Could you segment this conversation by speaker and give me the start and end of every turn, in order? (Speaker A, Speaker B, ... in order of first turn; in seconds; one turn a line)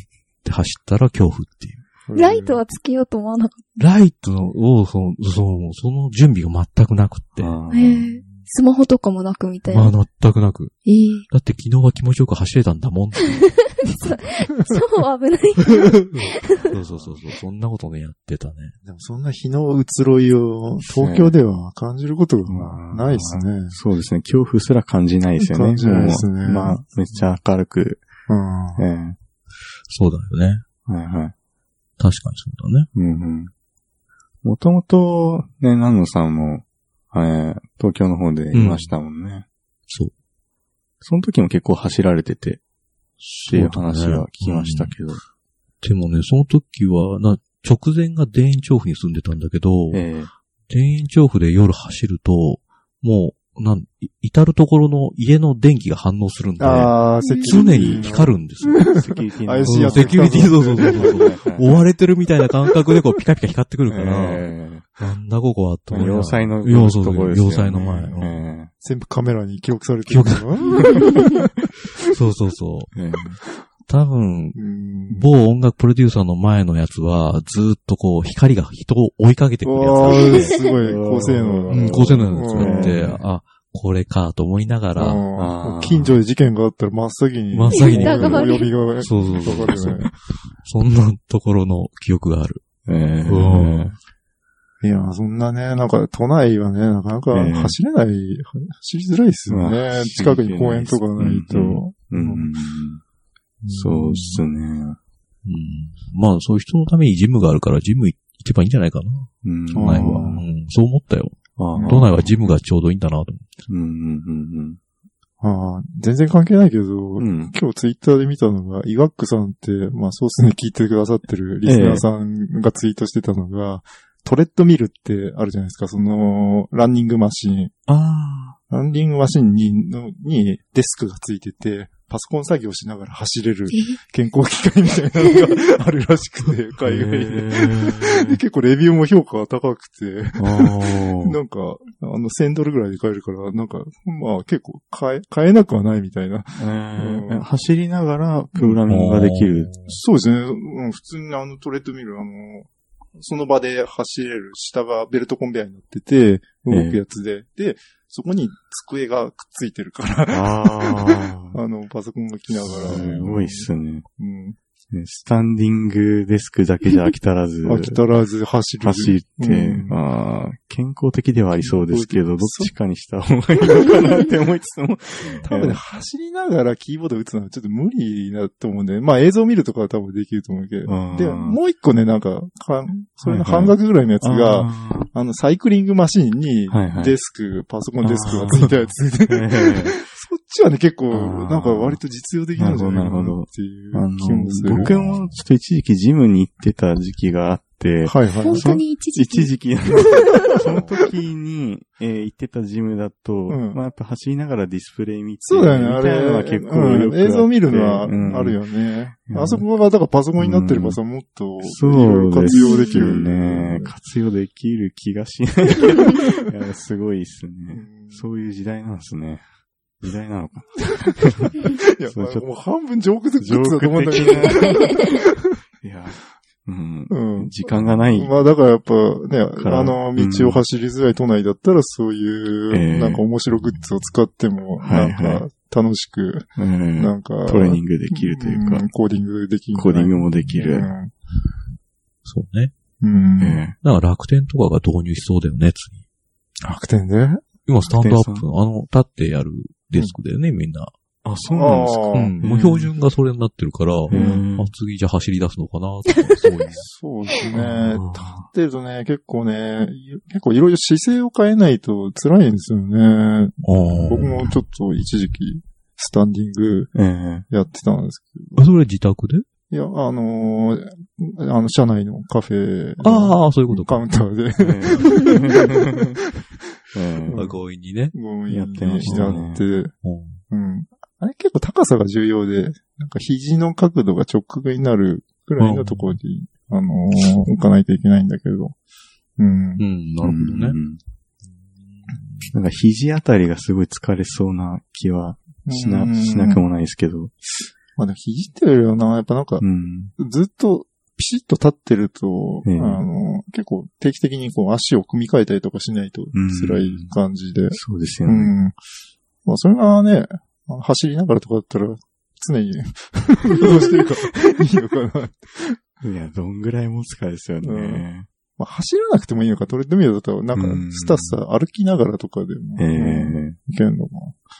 Speaker A: 0.4-1.8
Speaker B: 2.0-2.6
Speaker C: 2.1-3.7
Speaker A: 3.8-7.5
Speaker D: 7.4-8.1
Speaker C: 7.7-10.0
Speaker A: 9.7-13.8
Speaker C: 10.8-11.2
Speaker C: 13.3-16.5
Speaker A: 16.1-18.7
Speaker D: 16.8-17.2
Speaker B: 18.8-23.8
Speaker D: 20.8-21.3
Speaker D: 22.5-28.0
Speaker B: 25.4-27.2
Speaker B: 28.3-28.9
Speaker D: 28.8-29.2
Speaker A: 29.9-30.6
Speaker D: 30.9-31.3
Speaker A: 32.0-32.9
Speaker D: 32.9-33.5
Speaker D: 34.4-39.4
Speaker A: 38.5-38.9
Speaker D: 41.0-42.6
Speaker A: 43.2-45.0
Speaker D: 43.5-45.2
Speaker A: 45.8-50.0
Speaker D: 49.9-50.3
Speaker A: 50.7-58.9
Speaker B: 56.6-61.5
Speaker C: 57.2-58.0
Speaker D: 58.9-61.8
Speaker A: 59.6-68.4
Speaker D: 63.9-64.8
Speaker D: 65.9-68.7
Speaker B: 67.7-68.2
Speaker B: 68.8-71.5
Speaker A: 70.1-71.0
Speaker A: 72.0-72.9
Speaker D: 72.9-73.3
Speaker A: 73.9-74.6
Speaker B: 74.5-75.3
Speaker A: 75.1-80.6
Speaker B: 79.6-83.0
Speaker C: 80.1-80.7
Speaker D: 80.8-83.2
Speaker A: 81.7-85.2
Speaker B: 85.0-90.1
Speaker D: 85.3-86.2
Speaker A: 87.5-92.6
Speaker C: 87.7-88.7
Speaker D: 89.1-90.1
Speaker D: 92.8-93.9
Speaker A: 93.2-93.9
Speaker B: 94.8-102.5
Speaker D: 97.3-97.8
Speaker D: 99.5-103.0
Speaker B: 103.6-104.4
Speaker D: 103.7-105.0
Speaker A: 105.4-113.5
Speaker D: 109.4-110.3
Speaker B: 109.7-110.4
Speaker D: 111.6-112.3
Speaker B: 111.7-112.1
Speaker D: 113.7-114.8
Speaker B: 115.4-127.7
Speaker D: 117.2-117.5
Speaker D: 121.6-122.0
Speaker D: 127.9-128.6
Speaker B: 128.7-147.4
Speaker C: 133.7-134.0
Speaker D: 136.8-138.4
Speaker D: 140.4-141.3
Speaker D: 146.6-149.8
Speaker A: 148.9-149.9
Speaker B: 149.9-164.6
Speaker D: 156.7-157.0
Speaker D: 160.3-161.6
Speaker D: 162.5-164.0
Speaker D: 164.9-168.0
Speaker B: 167.6-170.0
Speaker D: 168.8-175.8
Speaker B: 171.6-172.7
Speaker B: 175.4-194.9
Speaker D: 180.8-181.6
Speaker D: 183.2-185.1
Speaker D: 186.7-187.2
Speaker D: 188.0-190.0
Speaker D: 191.1-192.0
Speaker D: 192.6-208.6
Speaker A: 194.8-195.2
Speaker B: 198.1-198.7
Speaker C: 198.4-199.5
Speaker B: 203.5-203.8
Speaker B: 205.4-213.9
Speaker D: 209.3-209.6
Speaker D: 210.4-211.0
Speaker D: 211.6-219.4
Speaker C: 212.4-213.1
Speaker B: 217.7-218.2
Speaker D: 220.0-222.4
Speaker B: 221.6-225.6
Speaker D: 223.4-224.8
Speaker D: 225.8-228.3
Speaker B: 227.1-241.1
Speaker D: 229.6-230.6
Speaker D: 232.7-233.2
Speaker D: 234.8-235.4
Speaker D: 236.6-238.8
Speaker D: 239.7-240.9
Speaker A: 242.2-242.7
Speaker B: 243.0-243.6
Speaker D: 243.4-243.8
Speaker A: 243.8-246.0
Speaker B: 246.6-247.5
Speaker A: 247.7-250.9
Speaker D: 247.9-248.4
Speaker D: 251.2-252.9
Speaker B: 251.5-252.3
Speaker A: 252.1-256.9
Speaker D: 254.1-254.7
Speaker B: 254.1-254.4
Speaker B: 256.8-266.9
Speaker D: 257.5-258.5
Speaker A: 263.6-264.5
Speaker D: 263.9-264.3
Speaker D: 266.9-267.4
Speaker B: 267.5-268.6
Speaker A: 268.6-269.4
Speaker B: 269.7-275.4
Speaker A: 273.0-274.0
Speaker D: 274.6-276.2
Speaker D: 276.9-277.5
Speaker B: 277.3-277.6
Speaker A: 277.3-278.1
Speaker B: 278.1-279.9
Speaker D: 278.5-279.6
Speaker A: 279.0-279.4
Speaker A: 280.0-280.4
Speaker B: 280.5-288.8
Speaker A: 285.6-286.2
Speaker B: 289.4-289.8
Speaker A: 289.8-290.8
Speaker D: 290.2-291.0
Speaker A: 291.4-292.5
Speaker D: 292.4-297.3
Speaker B: 295.7-296.6
Speaker B: 297.9-299.6
Speaker D: 299.6-300.1
Speaker B: 300.1-308.8
Speaker D: 302.6-303.0
Speaker D: 306.3-307.1
Speaker D: 307.7-308.5
Speaker B: 309.4-315.8
Speaker D: 316.0-318.3
Speaker B: 317.6-318.0
Speaker B: 318.6-324.4
Speaker D: 320.5-321.4
Speaker D: 322.8-323.6